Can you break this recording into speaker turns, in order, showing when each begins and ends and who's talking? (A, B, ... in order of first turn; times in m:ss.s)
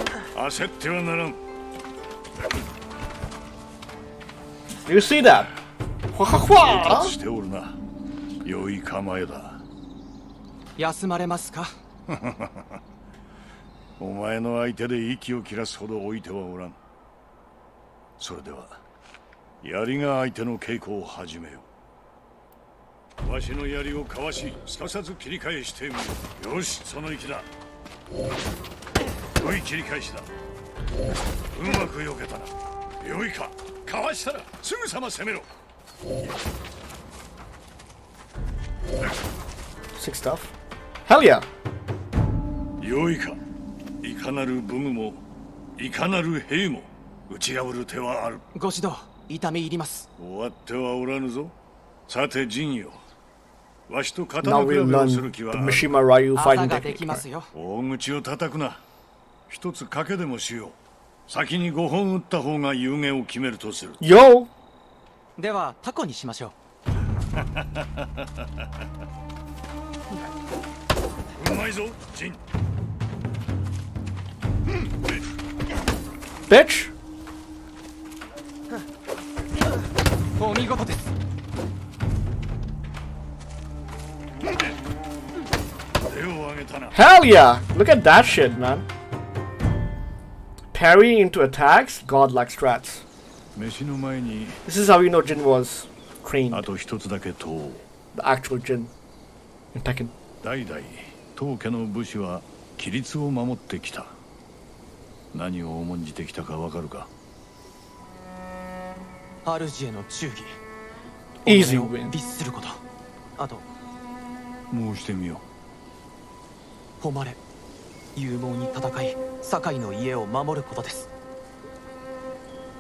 0:00.3-0:01.4 A
0:04.9-0:05.6 B
0:06.1-0:07.2 B
0:06.4-0:07.8 A
0:08.4-0:09.6 A
0:10.8-0:11.8 C
0:12.1-0:12.8 A
0:14.0-0:16.8 A
0:18.2-0:18.8 A
0:19.6-0:21.7 A
0:23.2-0:27.5 A
0:29.4-0:30.3 A
0:31.5-0:35.5 A
0:40.0-0:40.5 B
0:41.1-0:41.5 B
0:42.8-0:43.4 A
0:44.0-0:45.2 A
0:45.8-0:48.4 A
0:48.5-0:50.1 C
0:50.2-0:51.5 A
0:52.1-0:53.0 A
0:53.9-0:55.9 A
0:54.4-0:57.2 B
0:56.3-0:57.5 C
0:57.5-0:58.8 A
0:59.5-1:00.8 A
1:01.3-1:04.0 A
1:04.0-1:04.5 B
1:05.4-1:06.5 C
1:07.4-1:08.2 A
1:11.4-1:12.4 A
1:16.5-1:16.9 B
1:20.4-1:21.1 C
1:26.0-1:27.0 A
1:26.9-1:28.9 B
1:30.7-1:33.0 B
1:33.6-1:34.6 A
1:34.7-1:36.7 B
1:36.5-1:37.8 A
1:38.1-1:38.9 B
1:39.7-1:40.1 B
1:40.4-1:44.2 A
1:45.3-1:47.1 A
1:49.4-1:50.6 C
1:51.4-1:52.2 B
1:51.4-1:52.8 C
1:53.4-1:53.6 C
1:54.7-1:55.4 A
1:57.0-1:57.4 C
1:58.2-2:01.1 C